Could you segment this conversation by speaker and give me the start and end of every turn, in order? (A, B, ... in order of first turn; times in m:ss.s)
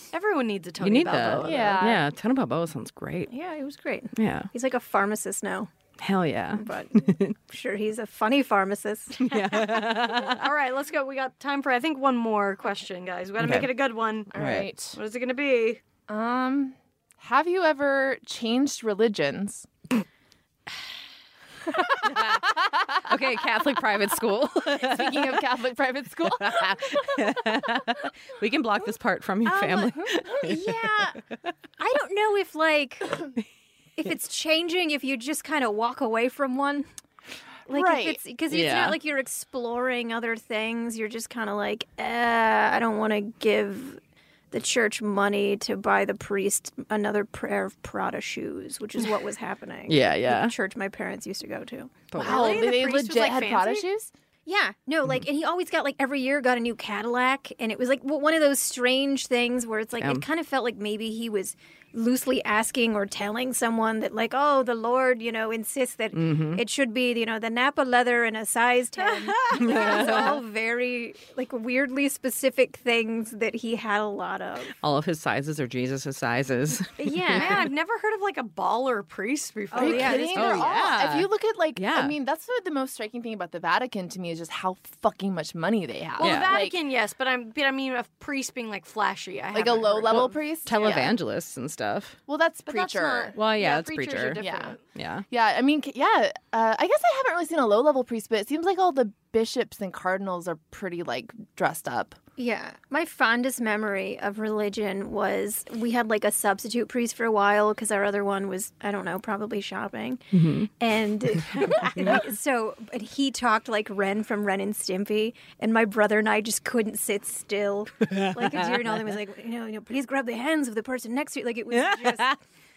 0:00.1-0:01.8 A
0:00.8-0:03.3 B
0:01.4-0:02.0 C
0:03.3-0:05.7 D
0:04.2-0:04.5 B
0:06.0-0:07.3 B
0:06.5-0:10.0 D
0:09.2-0:10.4 B
0:10.1-0:15.8 A
0:13.4-0:13.7 B
0:14.3-0:15.0 C
0:14.3-0:14.7 B
0:16.1-0:19.7 C
0:22.0-0:22.5 B
0:22.0-0:23.0 C
0:23.0-0:25.4 B
0:24.6-0:27.3 C
0:26.3-0:30.9 B
0:29.4-0:31.2 D
0:31.8-0:33.3 D
0:34.0-0:36.9 D
0:37.7-0:44.0 D
0:37.7-0:38.2 C
0:38.5-0:39.0 B
0:44.5-0:52.0 D
0:49.9-0:50.5 B
0:52.1-0:52.7 B
0:52.2-0:53.8 A
0:52.2-0:54.1 C
0:54.4-1:14.7 D
1:00.0-1:00.2 B
1:06.1-1:06.6 B
1:09.0-1:10.3 A
1:09.6-1:10.4 B
1:14.8-1:17.6 B
1:17.0-1:17.7 D
1:17.3-1:20.6 A
1:19.7-1:20.6 D
1:19.8-1:26.8 C
1:20.3-1:22.1 B
1:26.2-1:30.4 A
1:26.2-1:26.6 B
1:29.5-1:31.2 C
1:30.2-1:32.2 B
1:32.3-1:33.3 C
1:32.7-1:34.8 A
1:33.3-1:34.4 B
1:34.4-1:34.8 C
1:34.9-1:35.2 B
1:35.3-1:42.2 C
1:42.4-1:50.2 D
1:50.3-1:50.7 B
1:50.8-2:02.4 D
1:58.1-1:59.0 B
2:01.7-2:02.4 B